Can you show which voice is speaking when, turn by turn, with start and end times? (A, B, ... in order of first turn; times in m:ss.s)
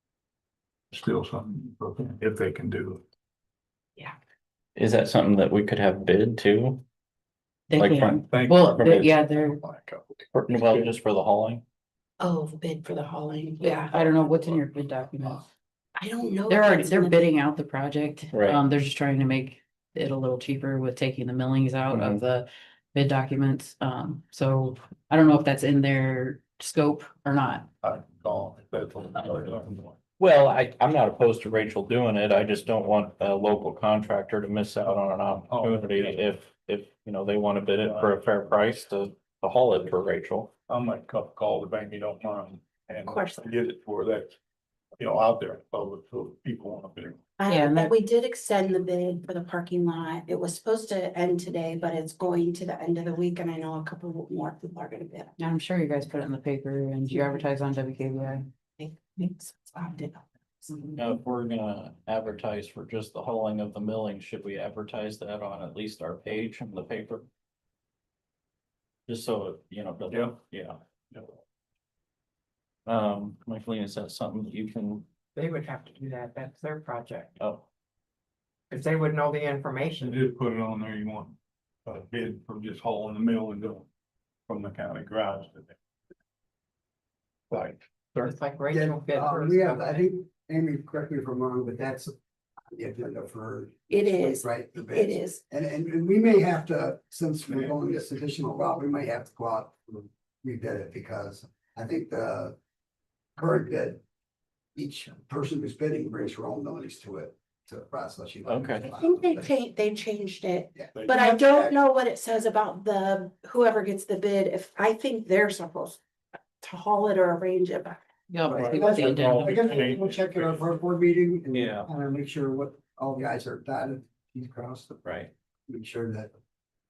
0:00.9-0:03.0 A
0:04.8-0:06.8 B
0:07.7-0:09.6 C
0:07.8-0:08.2 B
0:08.3-0:10.9 A
0:08.8-0:09.1 B
0:10.3-0:11.6 B
0:12.2-0:14.5 D
0:13.6-0:15.5 C
0:15.9-0:17.3 D
0:16.5-0:27.7 C
0:18.3-0:18.6 B
0:21.9-0:22.2 B
0:27.8-0:30.0 A
0:30.2-0:40.5 B
0:35.5-0:36.2 A
0:37.8-0:38.2 A
0:40.7-0:44.3 A
0:43.1-0:43.5 D
0:45.0-0:47.2 A
0:47.4-0:55.4 D
0:47.5-0:47.9 C
0:55.4-0:58.5 C
0:58.8-1:00.9 D
1:01.0-1:07.2 B
1:09.1-1:10.8 B
1:10.1-1:10.4 A
1:12.8-1:15.0 B
1:15.3-1:17.3 E
1:17.4-1:17.6 B
1:18.7-1:20.2 E
1:20.0-1:23.9 A
1:24.5-1:25.8 A
1:27.5-1:28.3 A
1:28.2-1:30.0 E
1:28.7-1:32.1 F
1:32.7-1:42.5 F
1:33.9-1:35.4 D
1:43.4-1:44.0 F
1:44.8-1:49.5 F
1:48.5-1:48.9 B
1:48.9-1:56.0 D
1:50.8-1:51.7 F
1:50.9-1:51.3 A
1:56.6-1:58.0 D
1:58.3-1:59.9 C
1:58.5-2:05.0 F
1:58.5-2:00.7 A
2:01.5-2:01.9 B
2:05.0-2:05.3 B
2:05.7-2:06.3 F